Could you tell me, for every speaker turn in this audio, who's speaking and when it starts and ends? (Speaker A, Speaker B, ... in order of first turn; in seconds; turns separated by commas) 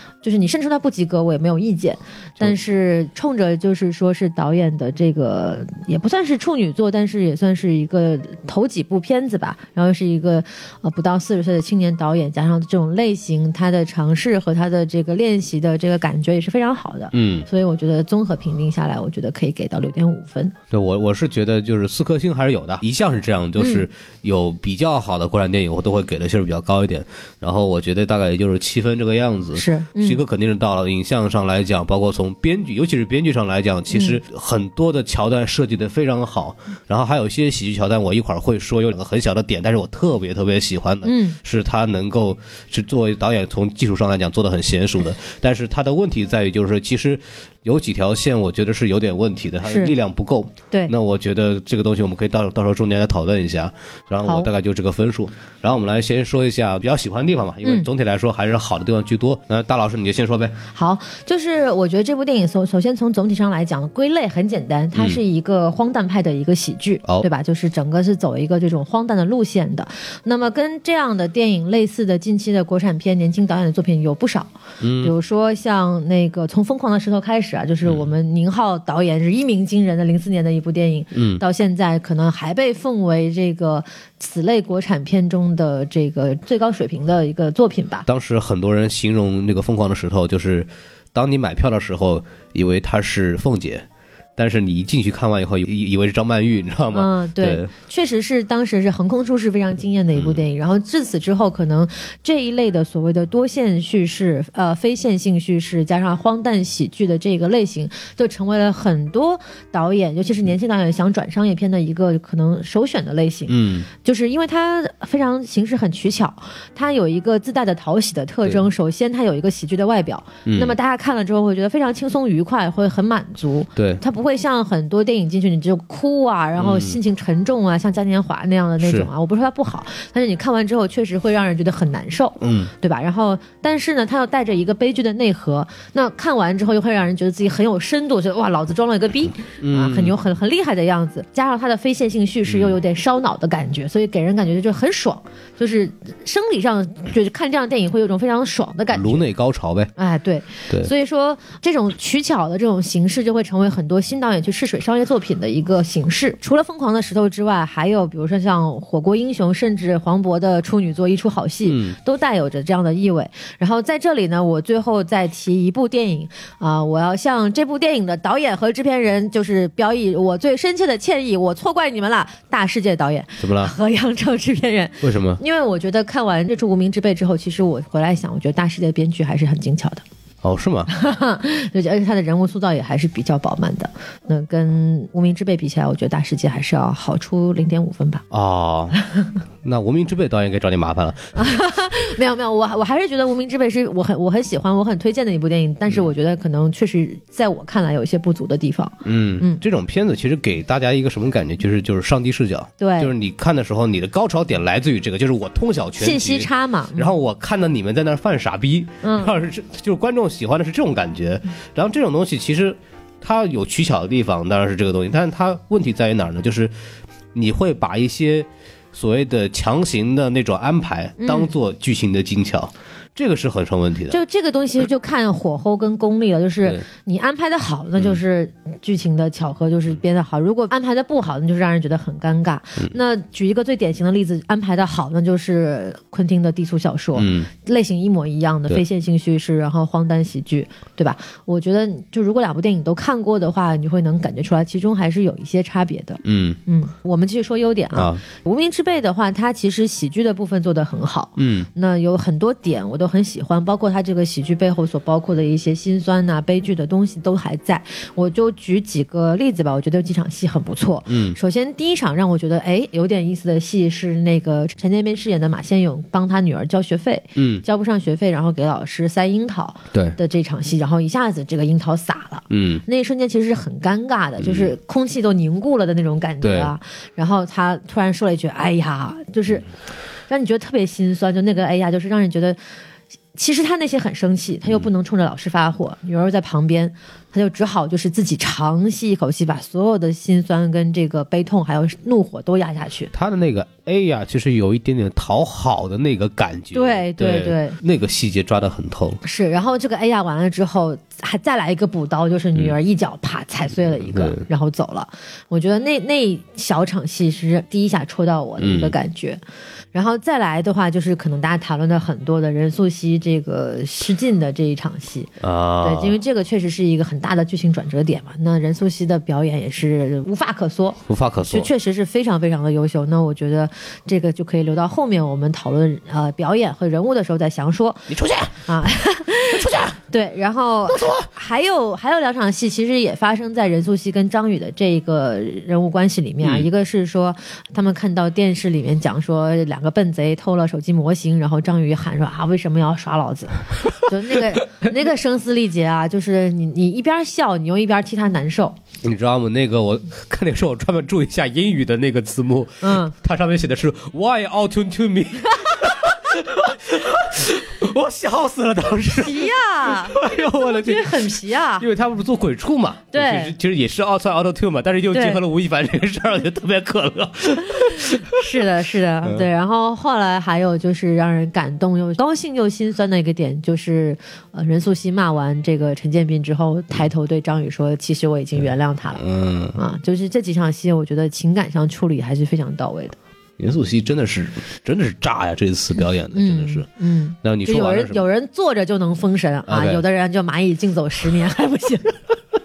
Speaker A: 0.2-20.6, Speaker B: 17.1-17.5, Speaker B: 20.7-60.6, Speaker A: 23.6-23.9, Speaker A: 29.6-30.2, Speaker A: 33.9-34.2, Speaker A: 41.0-41.4, Speaker A: 49.6-49.9, Speaker A: 54.2-54.5, Speaker A: 60.7-74.5, Speaker B: 65.0-65.2, Speaker B: 74.8-75.1, Speaker A: 75.0-88.1, Speaker B: 81.1-81.4, Speaker B: 88.1-93.8, Speaker B: 94.4-97.7, Speaker A: 96.9-149.2, Speaker B: 100.2-100.4, Speaker B: 113.5-113.9, Speaker B: 120.5-120.8, Speaker B: 123.8-124.0, Speaker B: 126.6-127.0, Speaker B: 128.8-129.1, Speaker B: 132.4-132.7, Speaker B: 139.6-140.2, Speaker B: 142.5-142.8, Speaker B: 148.9-149.9, Speaker A: 150.0-180.0, Speaker B: 161.7-162.0, Speaker B: 173.4-173.7, Speaker B: 175.0-175.4, Speaker B: 180.4-180.9, Speaker A: 180.9-188.2, Speaker B: 188.3-189.0, Speaker B: 189.6-191.3, Speaker A: 191.3-199.6, Speaker B: 199.0-216.7, Speaker A: 202.8-203.1, Speaker A: 206.0-207.1, Speaker A: 209.0-209.3, Speaker B: 217.3-224.2, Speaker A: 221.2-221.5, Speaker A: 224.1-279.7, Speaker B: 237.2-237.5, Speaker B: 246.2-246.6, Speaker B: 247.9-248.2, Speaker B: 251.4-251.7, Speaker B: 261.1-261.4, Speaker B: 267.4-267.6, Speaker B: 269.9-270.2, Speaker B: 272.5-272.8, Speaker B: 274.4-274.7, Speaker B: 276.4-276.7, Speaker A: 280.3-282.6, Speaker A: 283.4-293.1, Speaker B: 293.1-299.2, Speaker A: 296.7-297.8, Speaker A: 299.2-309.4, Speaker B: 303.9-304.4, Speaker B: 308.6-308.9, Speaker A: 309.9-328.1, Speaker B: 315.4-316.2, Speaker B: 321.1-321.7, Speaker B: 328.1-328.6, Speaker A: 328.7-348.8, Speaker B: 329.5-330.0, Speaker B: 330.9-331.3, Speaker B: 349.0-368.5, Speaker A: 352.8-353.1, Speaker A: 359.2-361.9, Speaker A: 363.1-363.6, Speaker A: 365.1-365.4, Speaker A: 367.8-379.2, Speaker B: 379.2-379.8, Speaker A: 379.8-383.2, Speaker B: 383.6-386.9, Speaker A: 386.3-392.2, Speaker B: 387.4-388.2, Speaker B: 389.7-390.0